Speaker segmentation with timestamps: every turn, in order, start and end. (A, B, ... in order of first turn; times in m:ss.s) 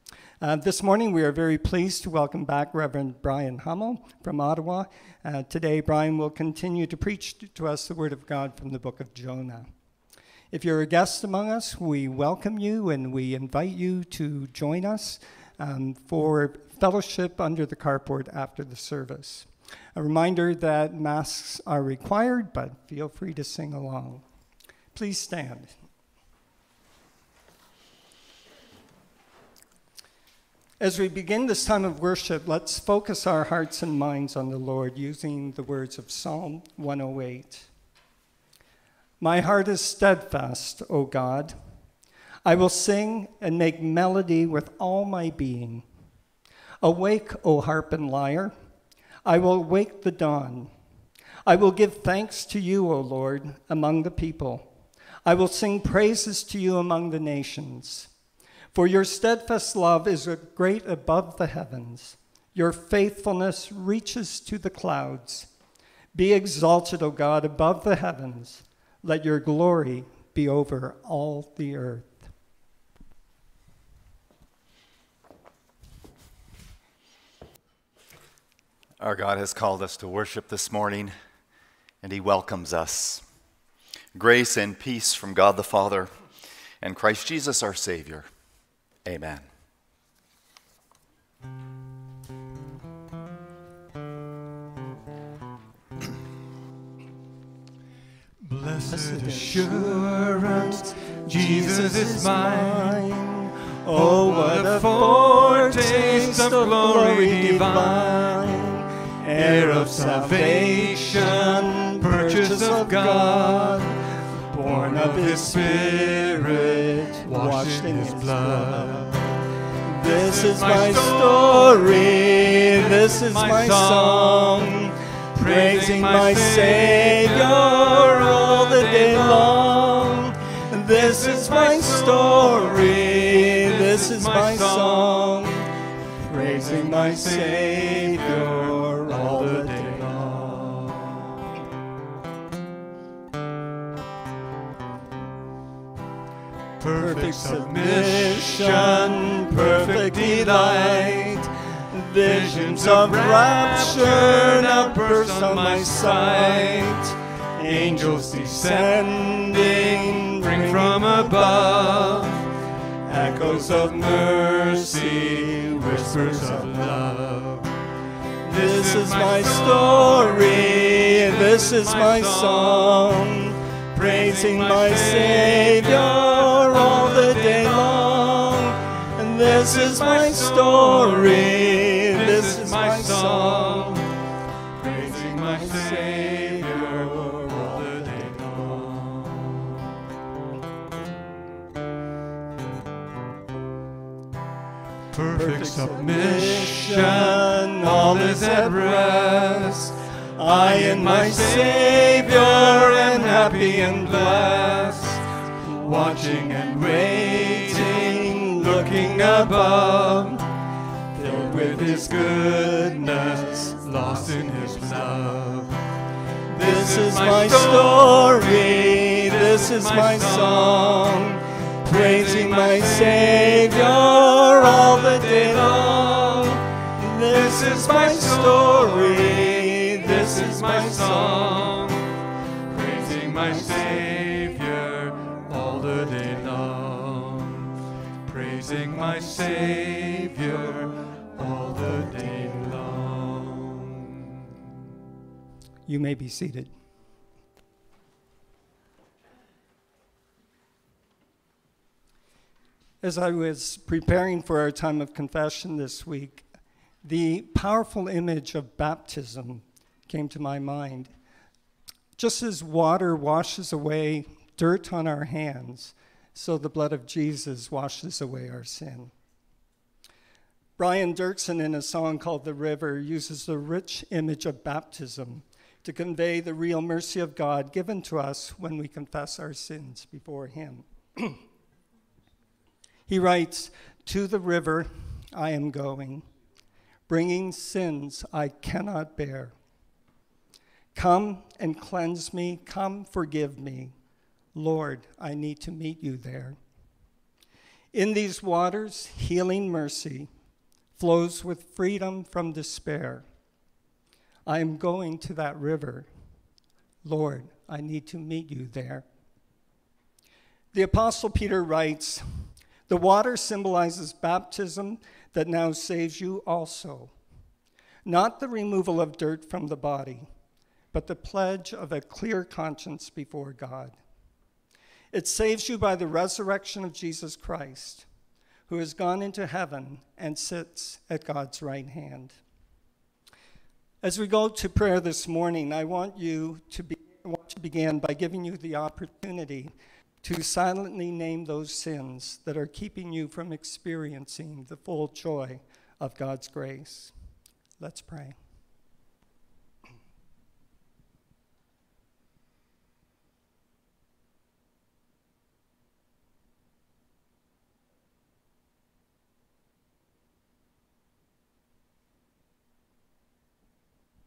0:00.4-0:09.7 A
0:10.5-0:24.2 A
0:24.9-0:25.7 A
0:30.8-0:37.7 A
0:39.2-0:41.6 A
0:42.4-0:45.8 A
0:46.8-0:48.5 A
0:49.2-0:50.7 A
0:51.4-0:54.7 A
0:55.2-0:58.1 A
0:58.7-1:05.5 A
1:06.1-1:12.2 A
1:19.0-1:21.1 B
1:22.0-1:23.2 B
1:24.1-1:26.1 B
1:26.8-1:28.3 B
1:29.0-1:29.5 B
1:38.4-1:43.0 C
1:38.9-2:15.7 A
1:43.9-1:48.4 C
1:49.3-1:53.9 C
1:54.6-1:59.3 C
2:00.1-2:04.8 C
2:05.4-2:10.0 C
2:11.0-2:15.4 C
2:16.2-2:20.8 A
2:16.5-2:21.2 C
2:26.8-2:31.4 C
2:26.9-2:42.3 A
2:32.2-2:37.1 C
2:37.6-2:42.4 C
2:43.1-2:46.9 A
2:43.6-2:47.7 C
2:48.4-3:04.0 A
2:48.5-2:53.3 C
2:53.9-2:58.6 C
2:59.5-3:04.1 C
3:04.8-3:09.8 C
3:05.3-3:07.9 A
3:15.1-3:19.9 C
3:15.3-3:19.8 A
3:20.4-3:24.5 A
3:20.5-3:30.4 C
3:26.8-3:30.4 A
3:31.1-3:33.7 A
3:31.3-3:35.9 C
3:36.5-3:51.7 A
3:36.6-3:41.2 C
3:41.9-3:46.6 C
3:47.3-3:52.1 C
3:52.7-4:04.4 C
4:05.9-4:06.7 A
4:13.0-4:16.4 A
4:17.0-4:21.1 A
4:22.2-4:29.1 A
4:30.8-4:41.4 A
4:43.1-4:46.3 A
4:47.1-4:49.5 A
4:50.9-4:53.9 A
4:54.5-4:56.6 A
4:57.9-5:00.3 A
5:01.0-5:03.2 A
5:04.5-5:06.1 A
5:07.0-5:09.1 A
5:10.7-5:17.1 A
5:18.0-5:20.3 A
5:20.9-5:24.0 A
5:25.1-5:28.0 A
5:28.7-5:32.4 A
5:34.0-5:47.1 A
5:47.8-5:48.4 A